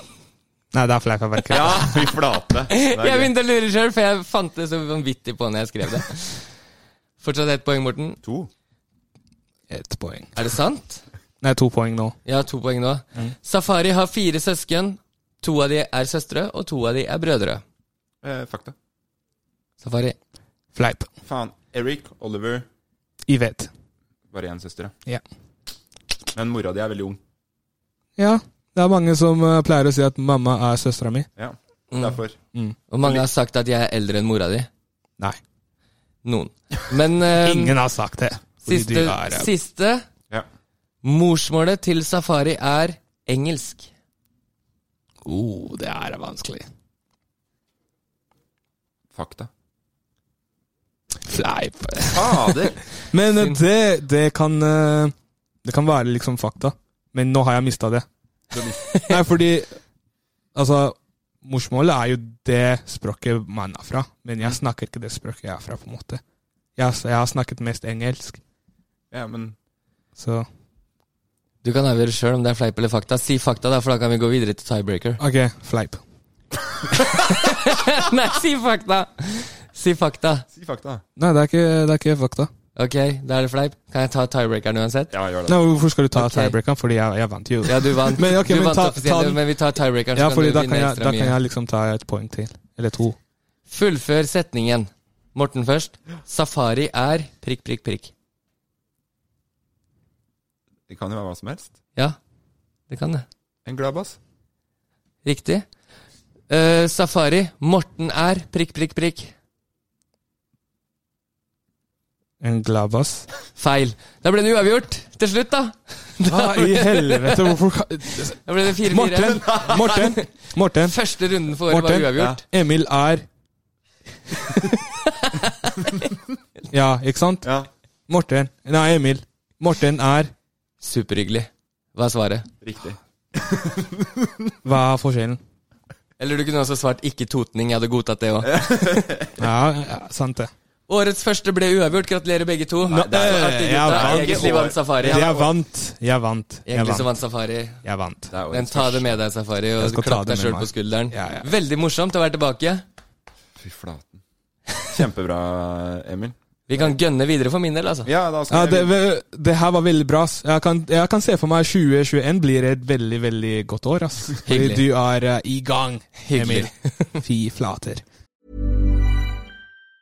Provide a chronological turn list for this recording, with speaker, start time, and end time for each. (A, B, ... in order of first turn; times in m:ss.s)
0:00.7-0:02.1 A
0:01.5-0:03.3 B
0:02.7-0:06.4 C
0:07.2-0:08.2 C
0:08.2-0:08.5 B
0:09.7-0:10.4 A
0:10.4-0:11.0 C
0:11.4-0:12.2 A
0:12.2-0:17.6 C
0:18.2-0:18.7 B
0:19.8-0:20.2 C
0:20.7-0:21.1 A
0:21.2-0:22.6 B
0:23.3-0:23.7 A
0:24.3-0:24.9 B
0:26.3-0:27.2 B
0:28.2-0:31.3 A
0:31.4-0:32.4 B
0:31.9-0:32.2 C
0:32.9-0:34.7 C
0:36.2-0:37.8 C
0:37.4-0:39.5 A
0:38.6-0:40.1 C
0:41.0-0:43.9 C
0:45.2-0:46.7 A
0:49.1-0:49.5 B
0:51.2-0:58.0 A
0:52.1-0:52.8 B
0:58.5-0:58.8 B
0:59.1-0:59.7 A
1:00.5-1:06.2 A
1:06.8-1:08.4 A
1:09.1-1:09.5 B
1:10.2-1:10.5 A
1:11.6-1:15.2 C
1:15.2-1:16.0 A
1:17.1-1:20.4 C
1:20.5-1:21.0 B
1:21.2-1:22.5 A
1:22.8-1:25.1 C
1:25.1-1:25.6 B
1:25.5-1:29.4 A
1:26.1-1:26.5 C
1:27.6-1:31.4 C
1:30.1-1:33.2 A
1:33.7-1:38.1 C
1:40.9-1:41.7 B
1:42.9-1:43.2 C
1:43.6-1:44.2 B
1:45.2-1:45.6 C
1:46.5-1:49.3 C
1:52.4-1:53.3 A
1:53.6-1:57.5 C
1:56.3-2:01.0 A
1:58.4-2:00.2 C
1:59.4-1:59.9 B
2:00.8-2:02.4 C
2:01.7-2:03.2 A
2:05.0-2:06.0 C
2:06.7-2:07.5 A
2:08.1-2:10.3 A
2:10.8-2:12.5 C
2:12.6-2:14.3 B
2:14.6-2:15.4 A
2:16.2-2:18.6 C
2:18.4-2:19.4 B
2:19.4-2:20.5 A
2:20.9-2:25.2 C
2:22.9-2:27.1 A
2:23.1-2:25.5 B
2:26.7-2:27.8 C
2:27.8-2:28.3 A
2:28.3-2:29.2 B
2:28.5-2:32.8 C
2:29.8-2:31.5 A
2:33.6-2:34.2 B
2:34.9-2:36.9 B
2:36.7-2:38.1 C
2:38.0-2:38.9 B
2:38.5-2:48.0 A
2:44.4-2:44.8 C
2:46.2-2:47.1 C